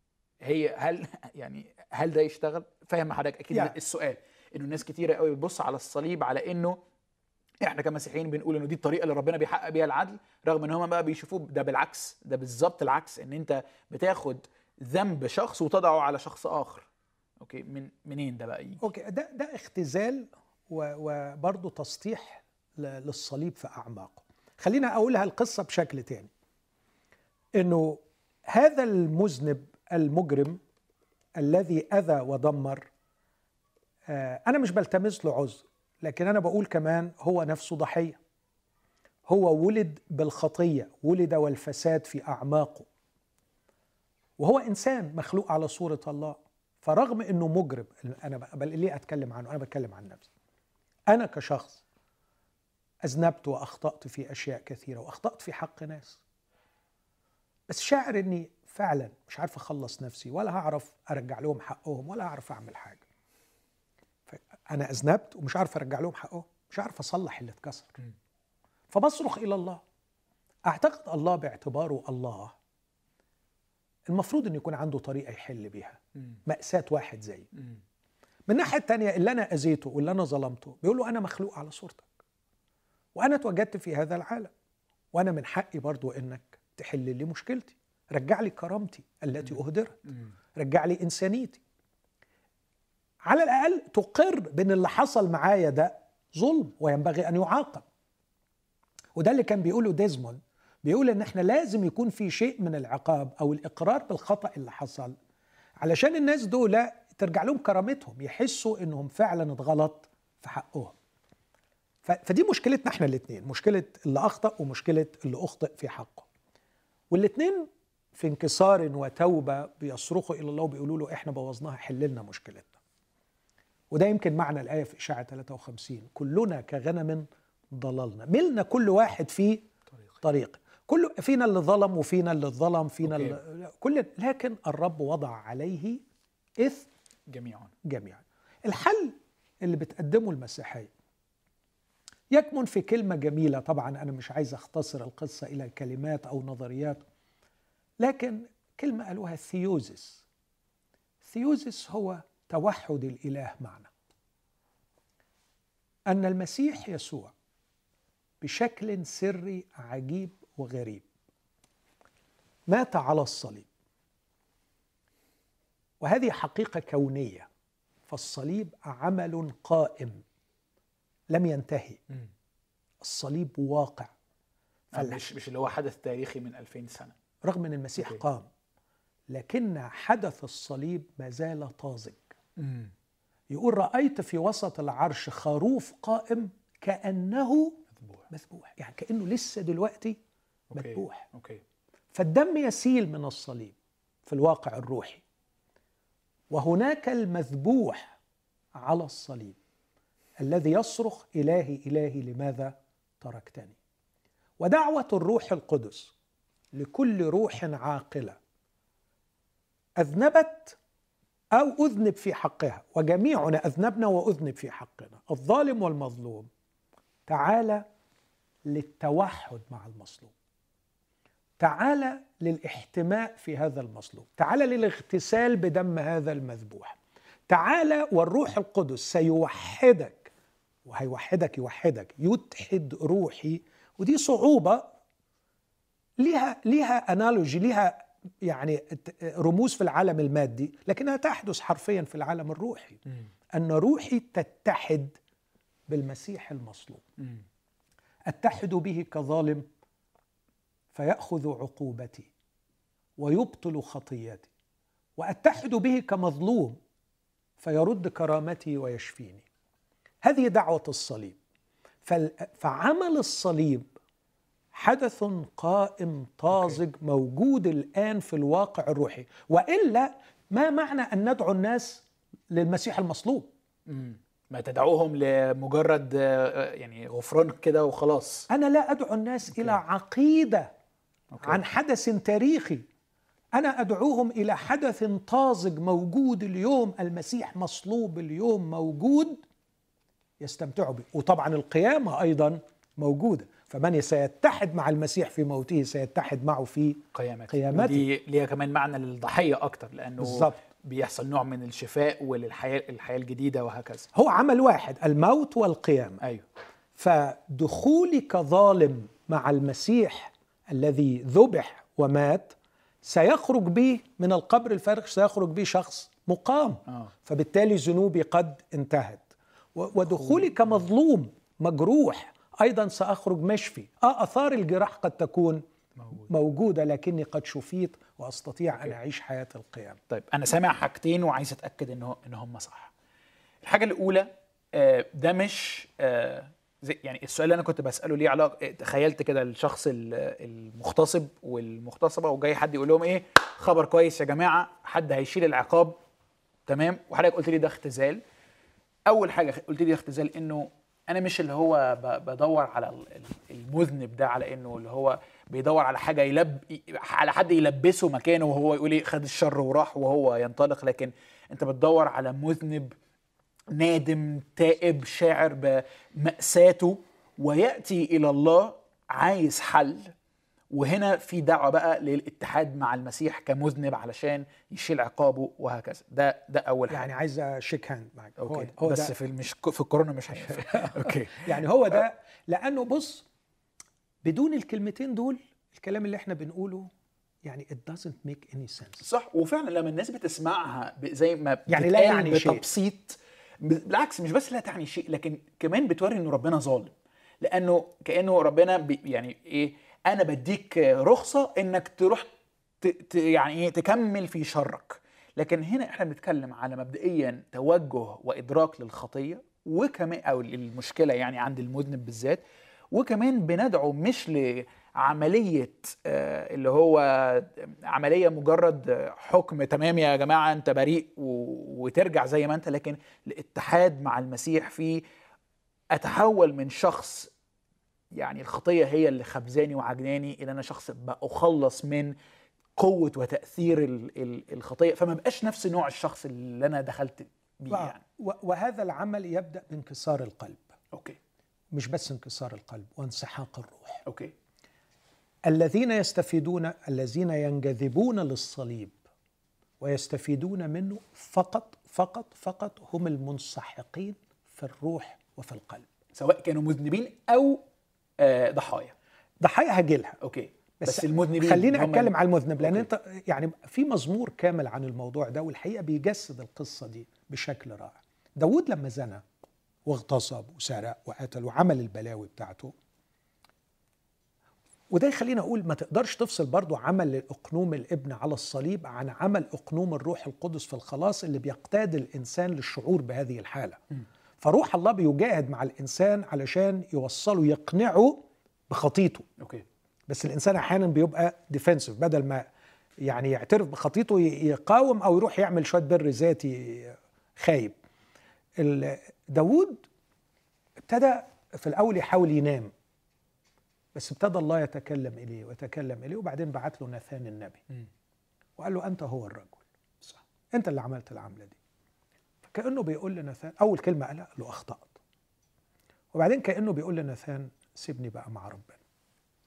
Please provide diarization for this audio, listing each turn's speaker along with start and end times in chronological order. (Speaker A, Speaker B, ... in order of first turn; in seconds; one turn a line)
Speaker A: 0.4-6.8
Speaker A: 7.6-16.9
Speaker A: 17.4-18.8
Speaker B: 18.8-26.3
Speaker B: 27.6-30.6
Speaker B: 31.4-32.9
Speaker B: 34.1-38.2
Speaker B: 39.3-42.9
Speaker B: 44.4-50.3
Speaker B: 51.1-51.8
Speaker B: 53.0-56.2
Speaker B: 57.7-63.0
Speaker B: 64.3-68.0
Speaker B: 68.9-69.8
Speaker B: 70.6-72.5
Speaker B: 74.1-77.5
Speaker B: 78.5-82.1
Speaker B: 83.1-84.5
Speaker B: 85.1-90.0
Speaker B: 90.5-91.6
Speaker B: 93.2-97.8
Speaker B: 99.2-105.1
Speaker B: 105.8-111.0
Speaker B: 112.0-116.3
Speaker B: 117.1-122.7
Speaker B: 123.9-129.6
Speaker B: 130.2-136.0
Speaker A: 133.0-133.4
Speaker B: 136.6-136.9
Speaker A: 137.3-137.7
Speaker B: 137.8-140.9
Speaker B: 142.3-147.0
Speaker B: 148.0-150.2
Speaker B: 151.2-153.9
Speaker B: 156.1-157.3
Speaker B: 158.4-161.1
Speaker B: 162.7-163.7
Speaker B: 166.0-167.5
Speaker B: 168.1-170.2
Speaker B: 171.3-172.0
Speaker B: 173.0-174.1
Speaker B: 174.9-175.2
Speaker A: 174.9-177.1
Speaker B: 177.4-178.5
Speaker B: 179.3-182.3
Speaker A: 182.6-182.9
Speaker B: 183.5-187.8
Speaker B: 188.3-190.2
Speaker A: 190.7-191.6
Speaker B: 190.7-191.3
Speaker B: 192.1-193.7
Speaker B: 194.2-195.2
Speaker B: 196.5-198.2
Speaker B: 198.8-199.6
Speaker B: 200.4-203.8
Speaker B: 204.6-206.1
Speaker B: 206.7-208.4
Speaker B: 210.0-210.8
Speaker B: 211.5-216.5
Speaker B: 217.3-217.8
Speaker B: 218.7-220.3
Speaker B: 221.6-227.0
Speaker B: 227.5-230.3
Speaker B: 230.8-234.9
Speaker B: 236.2-243.0
Speaker B: 243.5-245.2
Speaker B: 245.9-247.0
Speaker B: 248.3-249.6
Speaker B: 250.9-252.3
Speaker B: 253.2-254.5
Speaker B: 255.2-256.8
Speaker B: 257.6-259.4
Speaker B: 260.2-261.4
Speaker B: 262.0-263.9
Speaker B: 264.7-273.5
Speaker A: 273.9-278.5
Speaker B: 278.5-280.7
Speaker A: 281.3-281.6
Speaker B: 281.4-282.8
Speaker B: 283.5-289.4
Speaker B: 290.4-298.0
Speaker A: 297.1-304.1
Speaker B: 300.2-300.6
Speaker B: 304.1-306.2
Speaker B: 307.0-325.6
Speaker A: 316.9-317.1
Speaker A: 320.1-320.5
Speaker A: 326.0-326.3
Speaker B: 326.3-330.0
Speaker A: 330.1-332.9
Speaker A: 333.6-345.9
Speaker A: 346.7-348.2
Speaker A: 349.1-362.9
Speaker A: 363.7-370.1
Speaker A: 370.7-377.1
Speaker B: 376.9-379.1
Speaker A: 378.4-382.0
Speaker B: 380.4-383.2
Speaker B: 384.2-386.9
Speaker B: 387.4-389.0
Speaker A: 389.0-402.3
Speaker B: 391.7-392.6
Speaker A: 402.8-412.4
Speaker A: 412.9-425.0
Speaker A: 425.9-427.3
Speaker A: 428.1-432.1
Speaker A: 432.8-438.0
Speaker B: 437.7-440.7
Speaker A: 440.9-441.2
Speaker B: 441.7-444.0
Speaker A: 444.1-444.3
Speaker B: 445.4-448.9
Speaker B: 449.8-455.9
Speaker A: 456.1-457.6
Speaker A: 458.2-458.9
Speaker B: 459.4-460.2
Speaker A: 460.2-462.9
Speaker B: 460.8-469.2
Speaker B: 469.9-472.7
Speaker B: 474.9-483.8
Speaker B: 484.4-489.3
Speaker A: 489.4-489.6
Speaker B: 490.1-492.4
Speaker B: 493.0-497.7
Speaker B: 498.6-499.9
Speaker B: 500.9-502.7
Speaker B: 503.9-507.6
Speaker B: 508.6-509.6
Speaker B: 510.5-511.6
Speaker B: 512.4-514.9
Speaker B: 516.1-518.8